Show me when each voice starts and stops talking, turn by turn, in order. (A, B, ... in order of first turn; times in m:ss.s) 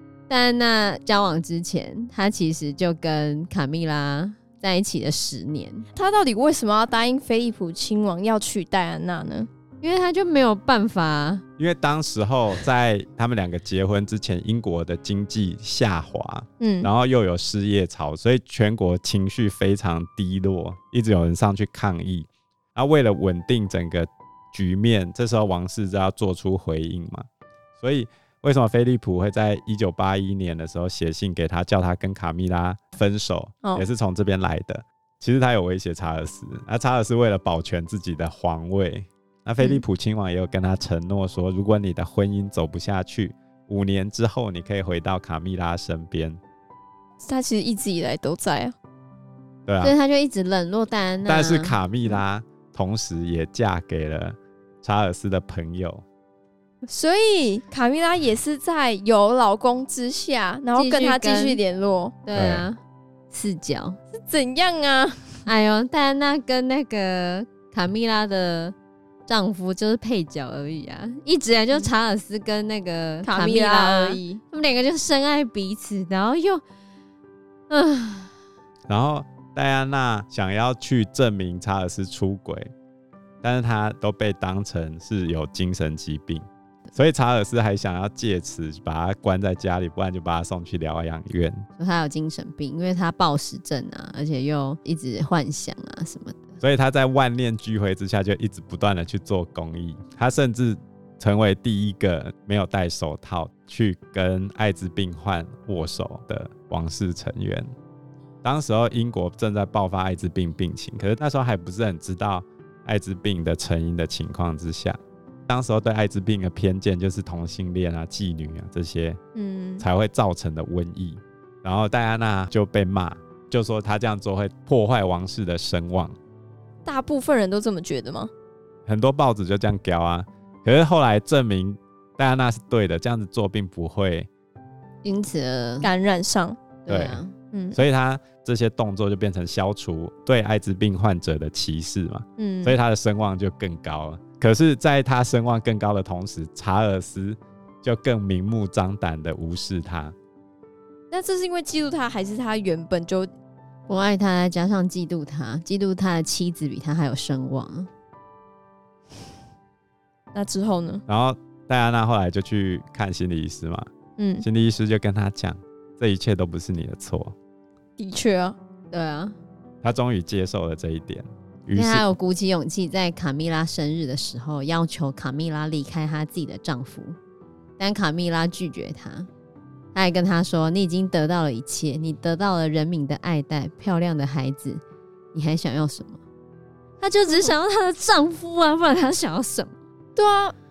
0:00.3-0:05.8 A
0:06.0-0:09.5 B
0:09.8-0:11.4 A
0:11.6-0:27.2 C
0:16.6-0:16.9 B
0:27.8-0:46.4 C
0:39.6-0:39.8 B
0:47.2-0:48.7 B
0:49.7-0:49.9 C
0:49.8-0:51.8 A
0:51.2-0:56.0 C
0:56.9-1:02.1 B
1:00.7-1:01.6 A
1:02.2-1:04.0 A
1:02.3-1:02.7 C
1:04.1-1:05.4 B
1:05.4-1:08.7 A
1:09.3-1:16.6 A
1:13.2-1:14.4 B
1:17.7-1:18.3 A
1:18.9-1:22.7 C
1:23.4-1:31.6 C
1:31.8-1:36.5 A
1:36.6-1:47.7 C
1:48.4-1:59.2 C
1:59.3-1:59.8 B
1:59.8-2:06.2 C
2:06.8-2:08.3 B
2:08.8-2:14.3 C
2:15.0-2:15.9 A
2:15.8-2:16.6 B
2:16.8-2:17.3 A
2:16.9-2:17.2 C
2:17.5-2:17.8 B
2:17.7-2:30.1 C
2:22.4-2:22.8 B
2:31.1-2:33.3 B
2:33.9-2:37.9 A
2:40.3-2:41.0 B
2:41.1-2:43.9 C
2:44.2-2:44.4 B
2:44.4-2:47.3 C
2:48.0-2:48.6 B
2:48.9-2:49.4 A
2:49.8-2:52.1 C
2:51.7-2:57.2 A
2:57.8-2:59.3 A
2:59.9-3:06.2 A
3:07.0-3:09.8 A
3:07.3-3:07.5 B
3:10.2-3:10.5 B